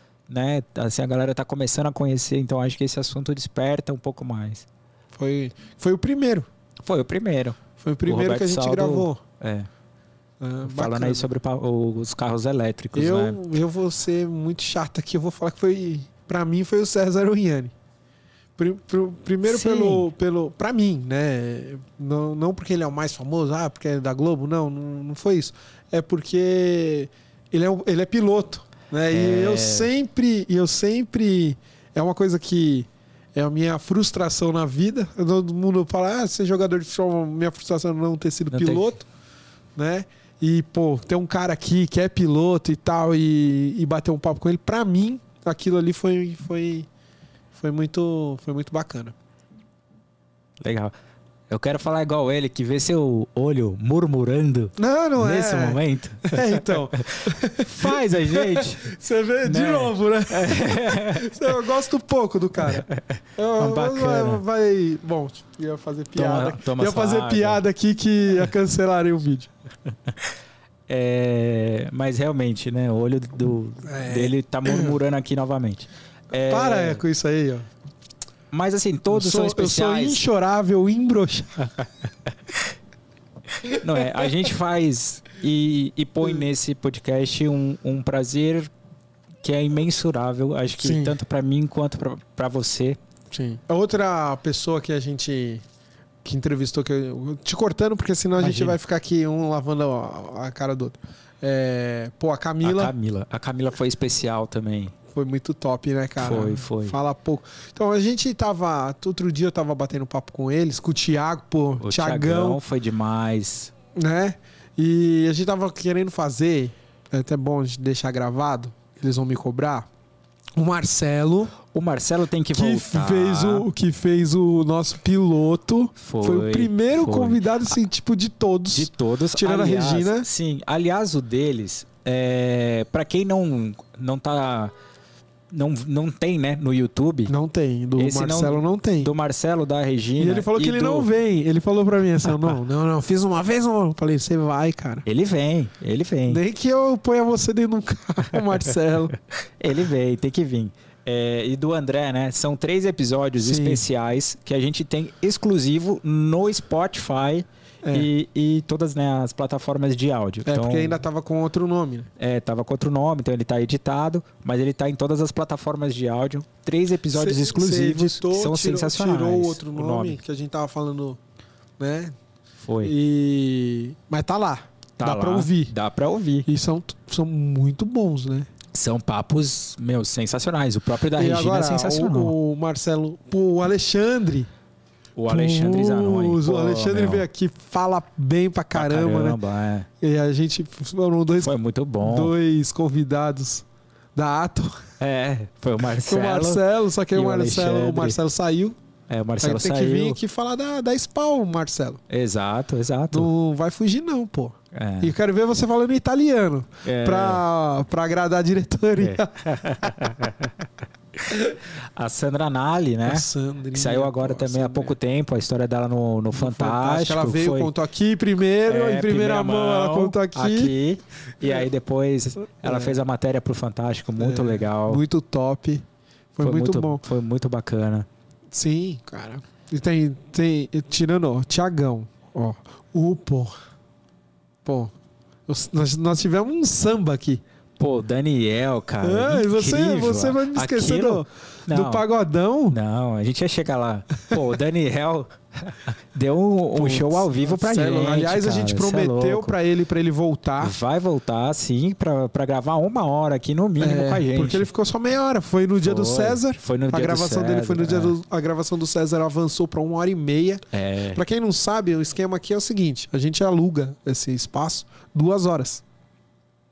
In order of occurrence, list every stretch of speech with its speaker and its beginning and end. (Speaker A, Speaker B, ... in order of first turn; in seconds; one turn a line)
Speaker A: 0.3-4.7
Speaker B: 5.1-6.5
Speaker A: 6.8-9.7
Speaker B: 7.8-9.2
Speaker B: 10.4-11.3
Speaker A: 10.6-13.4
Speaker B: 12.9-17.7
Speaker B: 18.6-39.1
Speaker A: 19.4-20.1
Speaker A: 29.1-29.9
Speaker A: 38.5-38.9
Speaker B: 39.8-46.9
Speaker B: 47.5-49.1
Speaker A: 50.6-50.9
Speaker A: 51.5-58.9
Speaker B: 54.8-69.5
Speaker A: 59.4-61.4
Speaker A: 62.6-64.4
Speaker A: 66.2-67.6
Speaker A: 70.9-77.0
Speaker B: 73.8-75.0
Speaker B: 76.5-77.7
Speaker A: 78.5-80.2
Speaker B: 79.1-81.8
Speaker B: 83.6-84.3
Speaker A: 83.7-88.7
Speaker A: 89.4-93.0
Speaker B: 90.8-91.2
Speaker B: 93.3-95.6
Speaker B: 96.2-102.9
Speaker A: 98.4-98.8
Speaker A: 102.6-104.9
Speaker B: 105.1-112.6
Speaker A: 106.2-107.0
Speaker A: 111.8-113.7
Speaker B: 113.9-119.9
Speaker B: 120.5-121.5
Speaker A: 121.7-123.7
Speaker B: 122.5-130.3
Speaker A: 126.0-127.5
Speaker A: 128.7-134.7
Speaker A: 135.5-137.3
Speaker B: 137.3-139.1
Speaker A: 137.9-141.1
Speaker B: 140.2-145.1
Speaker A: 145.0-146.4
Speaker B: 146.3-149.1
Speaker A: 149.6-161.0
Speaker B: 153.4-153.8
Speaker B: 157.8-158.1
Speaker B: 160.4-162.1
Speaker A: 162.2-170.2
Speaker B: 167.1-171.2
Speaker B: 171.8-172.2
Speaker A: 172.6-172.9
Speaker B: 172.8-175.7
Speaker A: 175.0-176.5
Speaker B: 176.4-178.5
Speaker A: 178.7-182.3
Speaker B: 181.1-184.5
Speaker A: 185.2-187.2
Speaker B: 185.3-189.4
Speaker A: 188.7-189.9
Speaker B: 190.0-194.8
Speaker A: 191.4-192.3
Speaker A: 195.0-198.2
Speaker B: 196.0-198.8
Speaker A: 199.1-200.2
Speaker B: 199.4-202.0
Speaker A: 202.1-203.3
Speaker B: 203.1-210.0
Speaker A: 204.7-205.1
Speaker A: 206.8-207.4
Speaker A: 209.0-210.7
Speaker A: 211.2-217.7
Speaker B: 213.1-215.0
Speaker B: 216.3-220.7
Speaker A: 218.7-225.0
Speaker B: 222.6-223.0
Speaker B: 224.2-227.0
Speaker A: 226.4-228.1
Speaker B: 228.5-233.5
Speaker B: 234.6-234.9
Speaker B: 235.5-237.4
Speaker A: 237.8-242.0
Speaker B: 239.0-242.8
Speaker A: 242.7-249.5
Speaker B: 246.7-250.8
Speaker A: 250.6-254.7
Speaker B: 253.8-265.8
Speaker A: 255.8-258.2
Speaker A: 260.7-261.2